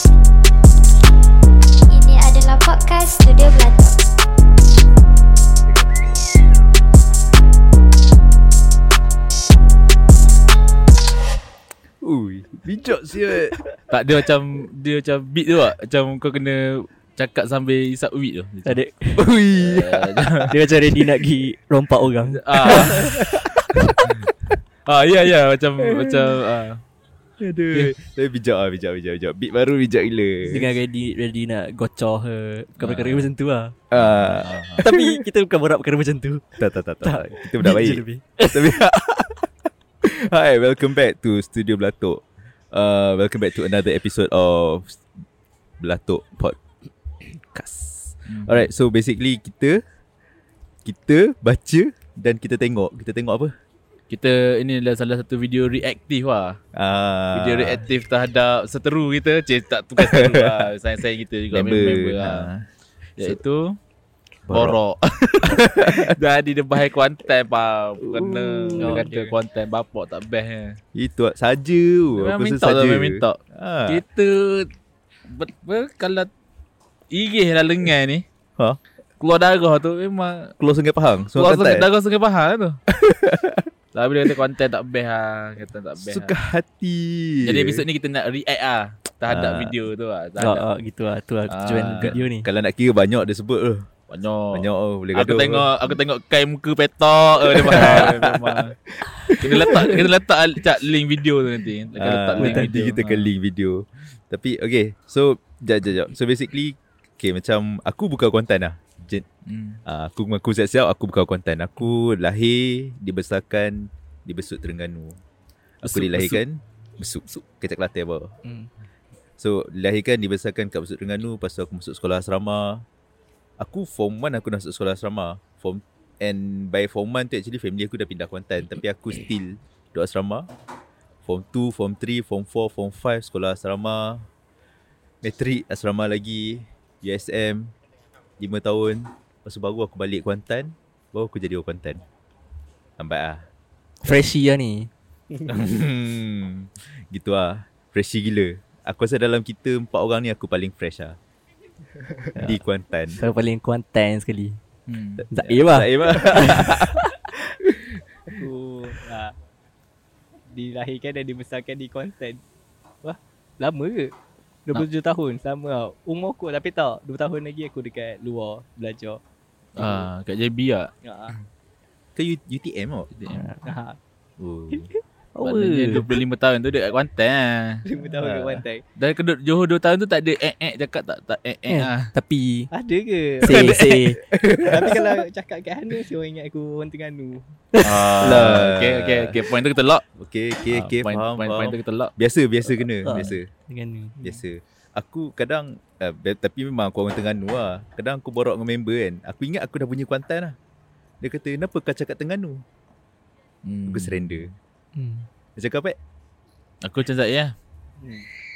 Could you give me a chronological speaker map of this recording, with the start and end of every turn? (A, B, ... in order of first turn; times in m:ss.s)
0:01.9-0:04.0 A
0:05.7-0:06.0 B
0:12.0-0:13.6 B
0:13.9-0:18.8 C
0:18.6-0:19.3 D
0:19.2-0:20.6 B
0:19.5-0:20.6 C
0:20.5-0:24.0 D
0:22.2-0:23.5 C
0:22.7-0:23.7 B
0:24.8-0:26.8 C
0:25.8-0:26.4 B
0:27.4-0:30.7 B
0:30.4-0:33.8 D
0:32.8-0:33.3 C
0:33.9-0:35.2 B
0:33.9-0:34.9 C
0:34.8-0:38.8 D
0:36.6-0:45.0 B
0:45.8-0:46.6 B
0:47.2-0:49.8 B
0:48.3-0:48.7 C
0:50.8-0:53.5 B
0:54.1-0:56.6 C
0:56.7-0:57.8 B
0:57.3-1:02.5 C
1:00.0-1:00.7 B
1:01.5-1:02.6 B
1:03.2-1:03.8 C
1:04.5-1:04.8 B
1:04.5-1:10.8 C
1:05.4-1:06.2 B
1:08.0-1:09.1 B
1:08.8-1:09.4 D
1:10.9-1:14.0 B
1:12.2-1:14.7 C
1:15.3-1:16.3 C
1:17.1-1:18.2 C
1:19.2-1:20.6 C
1:20.6-1:21.9 B
1:21.4-1:22.8 C
1:22.9-1:23.7 B
1:23.9-1:26.4 C
1:26.0-1:27.9 B
1:27.4-1:30.7 C
1:29.3-1:29.8 B
1:30.4-1:32.5 D
1:31.5-1:32.2 C
1:31.9-1:33.9 B
1:34.1-1:43.3 C
1:34.5-1:36.0 B
1:37.4-1:38.7 B
1:39.3-1:40.0 B
1:42.0-1:49.3 B
1:42.4-1:42.7 D
1:49.5-1:49.8 C
1:49.8-1:55.2 B
1:55.8-1:58.4 B
1:55.8-1:56.4 C
1:58.4-1:58.7 D
1:59.4-2:02.8 B
2:03.6-2:10.5 B
2:11.3-2:14.3 B
2:15.2-2:17.7 B
2:18.4-2:22.0 B
2:23.0-2:23.5 B
2:24.0-2:24.9 D
2:25.5-2:31.2 B
2:32.4-2:33.2 B
2:33.1-2:34.6 D
2:34.9-2:35.2 C
2:35.2-2:38.3 B
2:35.3-2:37.2 D
2:38.3-2:39.4 E
2:40.5-2:42.4 E
2:43.0-2:44.1 E
2:44.7-2:49.2 E
2:49.8-2:51.4 C
2:51.0-2:51.4 E
2:52.2-2:53.1 B
2:53.1-2:53.5 C
2:53.3-2:53.6 D
2:53.6-2:54.0 E
2:54.4-2:54.9 B
2:55.4-2:56.1 D
2:55.4-2:57.9 C
2:57.9-2:58.8 E
2:58.1-2:58.6 B
2:59.0-3:02.1 C
3:01.7-3:02.7 D
3:02.7-3:03.7 E
3:03.4-3:04.2 D
3:03.5-3:04.1 C
3:04.2-3:05.1 B
3:04.6-3:07.4 E
3:07.7-3:08.4 D
3:07.8-3:10.0 C
3:08.2-3:09.4 B
3:10.2-3:13.5 B
3:10.7-3:12.1 C
3:13.0-3:14.2 D
3:14.2-3:20.6 B
3:21.2-3:22.6 B
3:23.6-3:24.4 C
3:23.9-3:24.6 B
3:25.0-3:25.3 D
3:25.6-3:26.0 B
3:26.8-3:27.6 C
3:28.0-3:28.3 E